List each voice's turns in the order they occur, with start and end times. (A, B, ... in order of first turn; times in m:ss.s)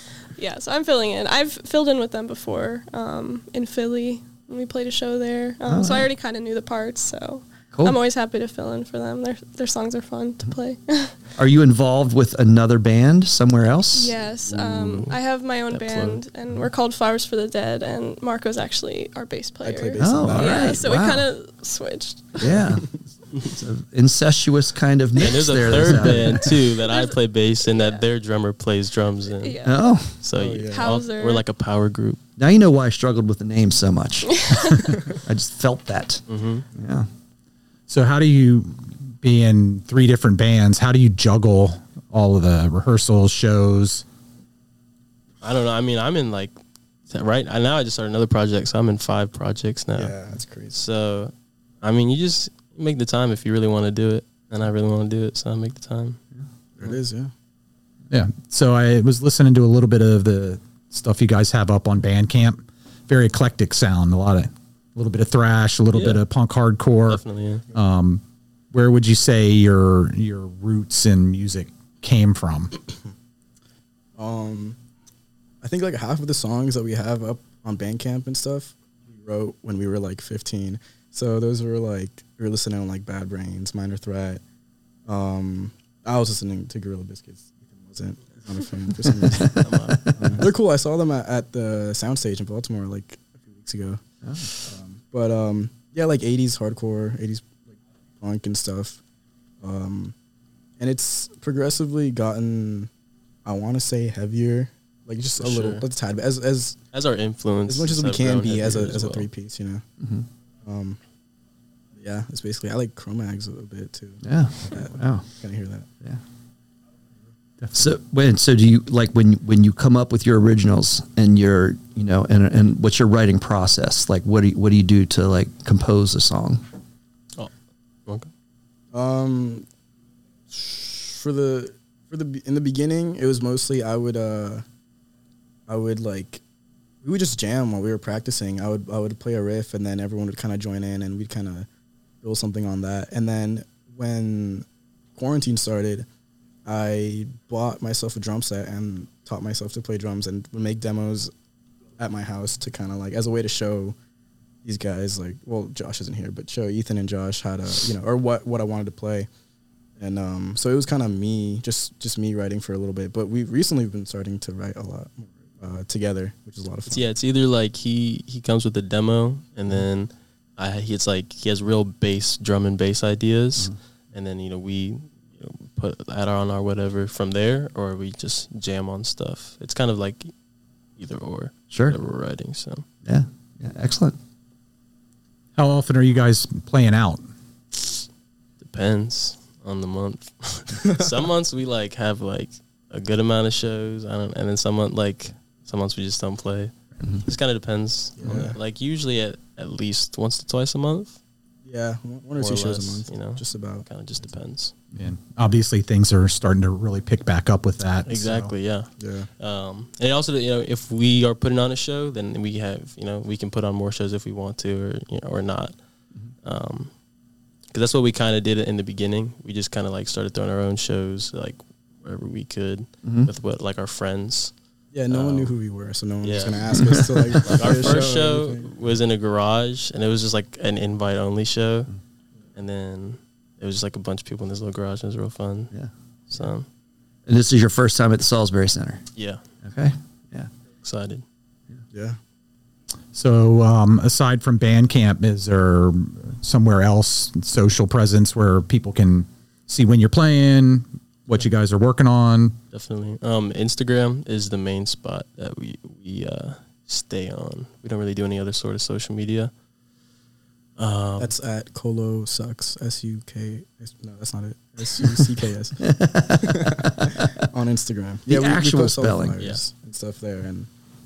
0:00.4-0:11.2 A
0:05.7-0:06.1 B
0:07.7-0:08.0 B
0:11.4-0:14.1 B
0:13.9-0:22.6 A
0:14.4-0:16.2 C
0:19.6-0:20.8 D
0:20.0-0:21.3 B
0:22.4-0:22.8 D
0:22.4-0:26.5 B
0:25.2-0:29.6 C
0:26.8-0:28.0 A
0:29.3-0:29.9 A
0:29.6-0:30.1 B
0:30.2-0:32.2 C
0:30.4-0:30.9 D
0:30.6-0:31.5 A
0:32.4-0:34.5 B
0:34.6-0:34.9 E
0:35.1-0:36.2 B
0:36.3-0:36.7 C
0:36.8-0:37.1 B
0:37.9-0:44.0 E
0:45.4-0:46.6 C
0:47.1-0:50.2 C
0:49.9-0:50.8 D
0:50.7-0:56.2 C
0:56.8-0:57.3 D
0:58.1-1:07.2 E
1:05.9-1:06.2 C
1:07.1-1:07.6 C
1:07.7-1:12.7 E
1:14.2-1:14.8 D
1:15.6-1:24.4 D
1:25.1-1:34.0 D
1:29.1-1:30.4 B
1:29.4-1:30.4 C
1:34.2-1:34.5 B
1:34.6-1:37.5 D
1:38.2-1:39.0 D
1:39.6-1:40.1 D
1:40.8-1:42.9 D
1:43.4-1:46.8 D
1:45.4-1:45.9 C
1:46.9-1:49.3 C
1:47.7-1:49.8 D
1:50.0-1:50.2 B
1:50.6-1:51.0 D
1:52.0-1:55.9 D
1:54.2-1:55.2 B
1:57.7-2:06.6 B
2:08.9-2:09.6 D
2:10.5-2:14.6 D
2:15.7-2:16.4 D
2:17.0-2:21.7 D
2:22.2-2:26.1 D
2:26.6-2:31.3 D
2:32.0-2:33.9 D
2:34.6-2:39.3 D
2:40.0-2:47.1 D
2:46.9-3:00.3 C
3:01.0-3:02.8 C
3:01.7-3:02.0 B
3:03.1-3:04.2 B
3:05.6-3:07.3 E
3:08.6-3:21.2 C
3:18.2-3:18.6 D
3:21.6-3:23.9 D
3:22.4-3:24.7 C
3:24.9-3:28.5 E
3:28.1-3:35.8 C
3:29.0-3:29.3 D
3:36.4-3:36.9 C
3:37.7-3:44.5 C
3:43.0-3:43.3 B
3:44.9-3:48.7 D
3:45.1-3:45.6 C
3:46.2-3:46.8 C
3:47.4-3:51.9 C
3:52.6-3:55.7 C
3:56.3-3:56.7 C
3:57.3-3:59.0 B
3:59.1-3:59.4 C
3:59.6-4:00.5 B
4:00.8-4:01.2 C
4:01.9-4:02.2 D
4:03.1-4:12.6 E
4:12.7-4:19.5 C
4:20.8-4:21.4 C
4:21.2-4:30.7 D
4:25.8-4:27.1 B
4:28.3-4:29.4 B